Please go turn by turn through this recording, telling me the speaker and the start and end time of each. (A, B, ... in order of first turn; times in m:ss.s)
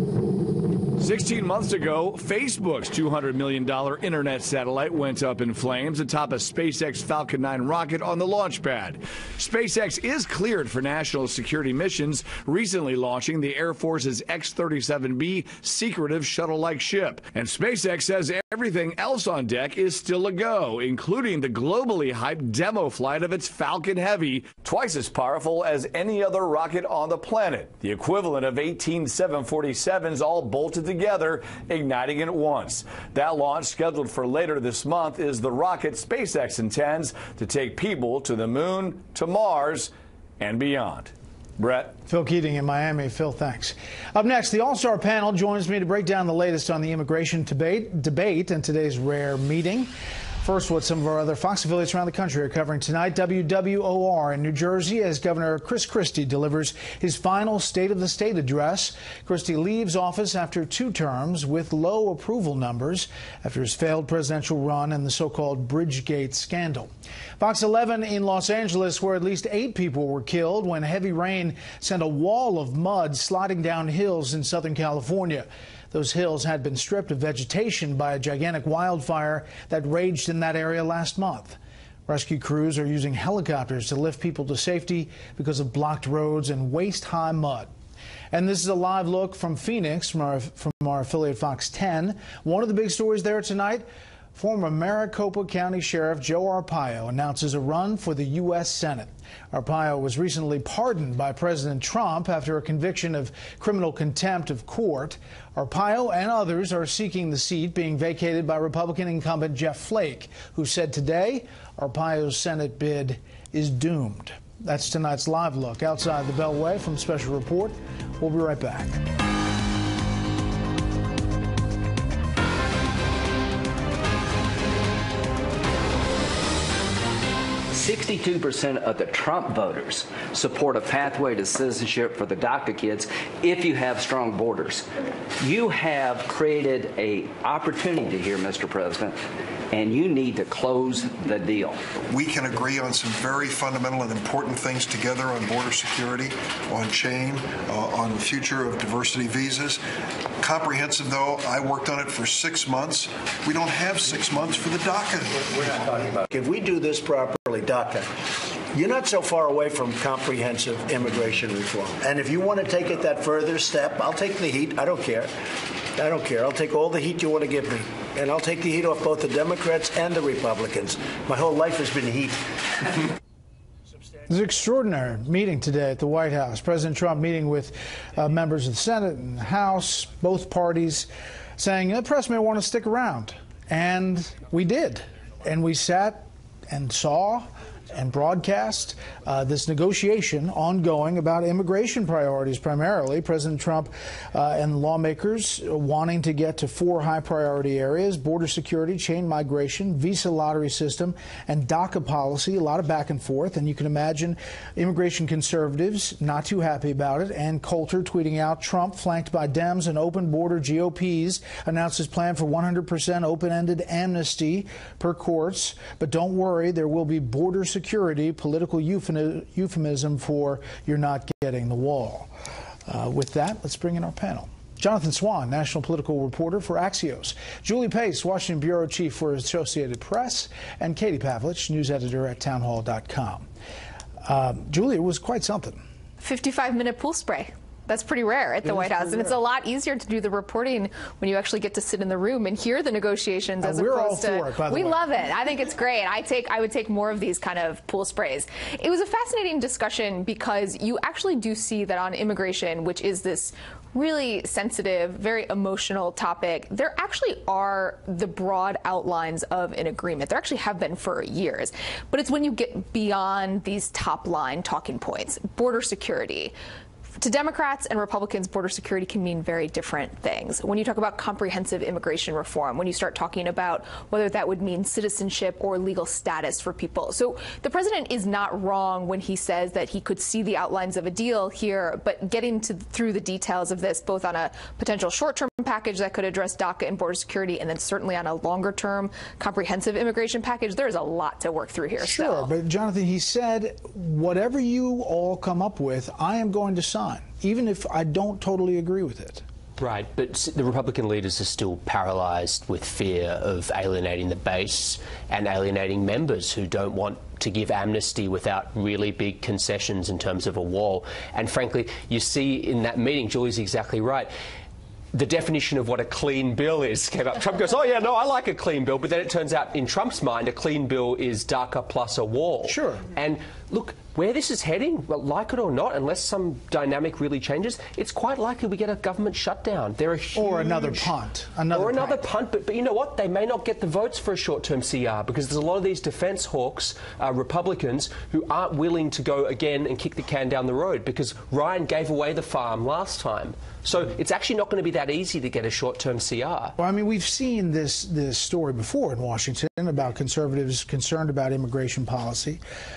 0:01.0-0:42.0 A
0:42.1-0:49.9 B
0:50.4-1:27.7 B
1:28.3-1:59.0 B
2:07.7-2:14.9 C
2:15.4-2:19.2 C
2:19.7-2:21.8 C
2:22.1-2:29.8 D
2:30.4-2:35.5 D
2:35.6-2:38.1 E
2:38.7-2:45.3 E
2:46.0-2:52.4 E
2:54.3-3:42.3 B
3:42.9-3:53.5 B
3:54.2-3:55.8 B
3:56.2-4:26.6 F
3:58.6-3:59.4 B
4:03.6-4:05.0 B
4:27.2-4:52.5 F
4:52.0-4:59.4 B
4:59.8-5:14.3 G
5:15.1-5:31.1 G
5:22.6-5:23.0 B
5:30.3-5:32.2 B
5:31.7-5:46.8 G
5:46.8-5:52.6 B